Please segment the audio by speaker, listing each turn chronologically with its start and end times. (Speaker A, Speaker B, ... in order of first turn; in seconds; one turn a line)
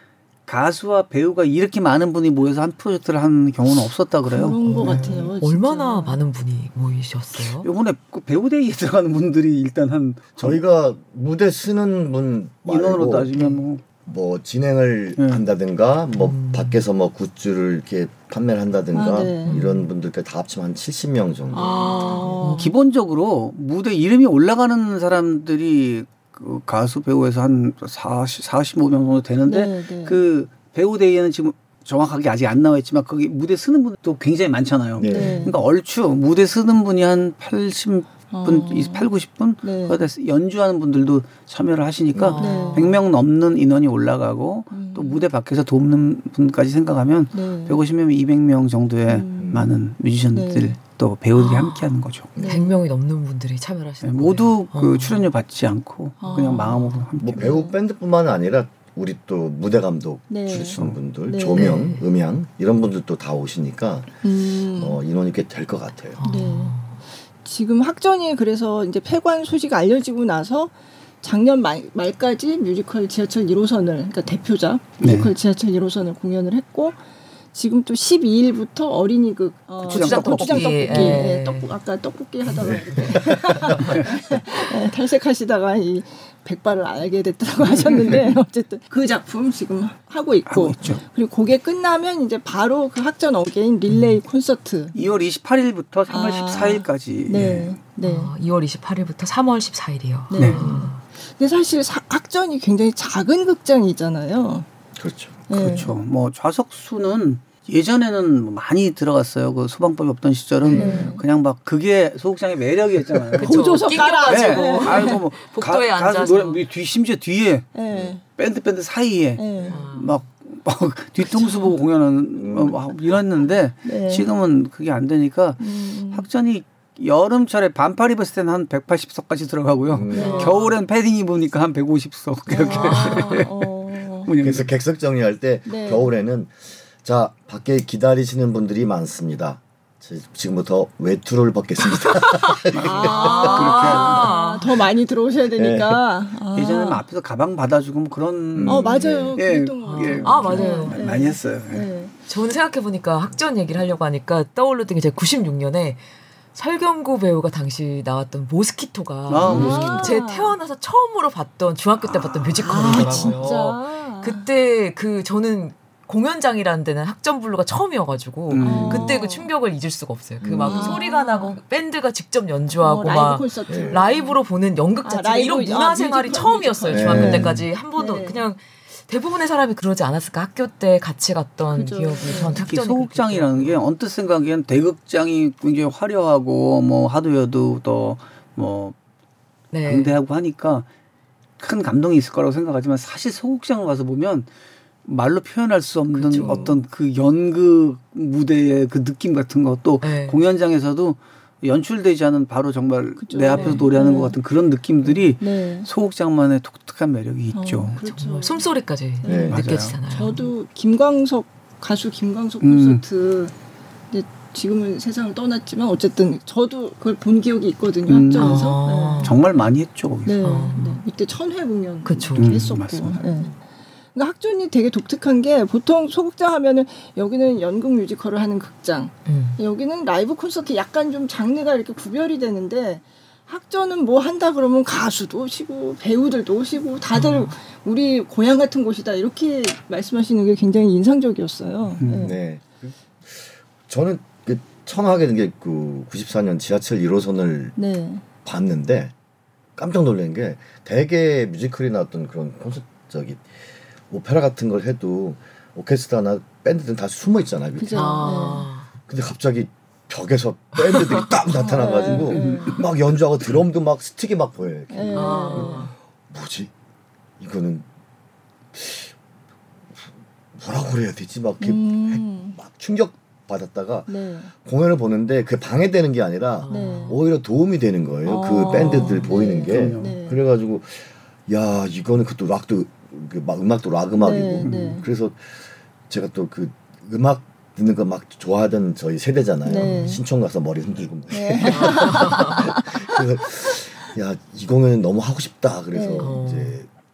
Speaker A: 0.5-4.5
Speaker B: 4.3-6.2
Speaker C: 4.6-7.7
Speaker A: 7.6-10.6
Speaker D: 10.4-13.3
Speaker A: 12.7-13.8
Speaker C: 13.4-13.6
Speaker D: 14.0-21.9
Speaker C: 16.2-16.8
Speaker B: 18.9-19.5
Speaker C: 19.4-19.8
Speaker C: 21.5-22.7
Speaker B: 21.6-22.6
Speaker A: 22.6-52.3
Speaker B: 29.4-30.2
Speaker D: 35.0-35.5
Speaker B: 35.1-35.5
Speaker B: 38.3-39.1
Speaker B: 39.6-40.0
Speaker C: 42.2-42.9
Speaker B: 42.4-42.9
Speaker B: 44.7-45.2
Speaker B: 47.3-47.8
Speaker B: 49.1-49.6
Speaker D: 49.4-49.7
Speaker B: 50.3-50.8
Speaker C: 51.4-51.8
Speaker B: 52.4-52.8
Speaker C: 52.4-55.2
Speaker A: 54.0-57.5
Speaker B: 56.2-56.7
Speaker C: 56.3-57.0
Speaker D: 57.2-64.1
Speaker B: 57.3-57.7
Speaker B: 60.3-61.7
Speaker C: 61.5-62.0
Speaker B: 64.2-65.0
Speaker D: 64.7-66.2
Speaker C: 66.2-66.9
Speaker B: 66.2-66.8
Speaker B: 67.4-77.0
Speaker A: 75.0-75.3
Speaker B: 77.5-94.9
Speaker C: 79.8-81.7
Speaker A: 79.8-81.2
Speaker D: 82.6-83.6
Speaker C: 82.7-83.9
Speaker A: 90.5-91.0
Speaker C: 93.9-94.2
Speaker A: 94.9-97.8
Speaker B: 96.1-98.3
Speaker C: 98.0-101.0
Speaker B: 100.3-104.7
Speaker A: 100.3-100.6
Speaker D: 100.6-100.9
Speaker D: 105.0-105.6
Speaker B: 105.5-105.9
Speaker A: 105.6-117.7
Speaker C: 110.6-111.1
Speaker B: 110.8-111.2
Speaker C: 113.3-116.6
Speaker B: 113.4-115.2
Speaker B: 117.7-118.2
Speaker A: 118.3-133.5
Speaker B: 119.4-119.8
Speaker C: 119.7-120.2
Speaker D: 122.3-122.8
Speaker B: 123.8-124.3
Speaker B: 125.6-126.2
Speaker D: 129.9-130.6
Speaker B: 130.1-130.6
Speaker B: 132.5-134.3
Speaker C: 132.7-133.3
Speaker A: 134.2-134.7
Speaker D: 134.4-144.2
Speaker B: 135.7-136.1
Speaker A: 142.7-144.2
Speaker B: 142.8-147.0
Speaker C: 142.9-144.9
Speaker D: 145.5-146.0
Speaker A: 146.5-151.9
Speaker D: 148.5-149.4
Speaker B: 148.7-152.2
Speaker C: 149.8-151.2
Speaker C: 152.3-156.0
Speaker C: 156.5-183.8
Speaker A: 159.3-160.0
Speaker B: 159.4-160.6
Speaker D: 162.5-163.2
Speaker B: 162.6-164.4
Speaker A: 168.5-169.2
Speaker B: 168.6-169.5
Speaker D: 170.4-171.0
Speaker B: 170.6-171.5
Speaker B: 172.8-174.4
Speaker D: 173.7-174.0
Speaker B: 175.0-178.5
Speaker D: 176.9-177.7
Speaker B: 181.7-182.6
Speaker A: 182.5-188.9
Speaker C: 189.7-190.1
Speaker A: 189.8-190.9
Speaker A: 191.6-194.5
Speaker A: 195.0-208.0
Speaker C: 196.1-196.7
Speaker D: 196.3-196.7
Speaker C: 200.0-200.4
Speaker B: 203.2-204.3
Speaker C: 203.5-203.9
Speaker B: 205.4-205.9
Speaker B: 207.5-213.5
Speaker C: 208.0-210.5
Speaker D: 209.2-209.6
Speaker A: 209.5-210.0
Speaker A: 212.6-213.0
Speaker B: 214.1-219.3
Speaker A: 218.1-218.6
Speaker C: 218.3-219.3
Speaker A: 219.2-220.5
Speaker B: 220.2-223.5
Speaker C: 220.4-221.0
Speaker C: 222.0-222.7
Speaker A: 222.3-223.3
Speaker B: 224.1-242.3
Speaker C: 229.2-229.6
Speaker C: 237.1-237.5
Speaker A: 242.0-242.3
Speaker D: 242.2-247.7
Speaker B: 247.8-248.2
Speaker D: 248.4-249.1
Speaker D: 249.8-253.5
Speaker D: 254.1-258.4
Speaker B: 257.8-258.7
Speaker C: 257.9-258.9
Speaker D: 259.1-266.7
Speaker B: 261.5-262.8
Speaker B: 264.9-265.9
Speaker C: 265.1-265.9
Speaker D: 267.4-267.9
Speaker D: 268.7-269.1
Speaker D: 270.0-296.9
Speaker B: 271.6-272.6
Speaker B: 274.1-274.5
Speaker C: 276.6-277.2
Speaker B: 276.7-277.2
Speaker B: 278.2-280.4
Speaker C: 278.7-279.3
Speaker A: 279.0-280.1
Speaker B: 284.2-285.0
Speaker A: 284.6-285.0
Speaker B: 289.6-290.2
Speaker B: 291.3-292.7
Speaker C: 291.6-292.6
Speaker B: 295.9-296.3
Speaker C: 296.2-296.8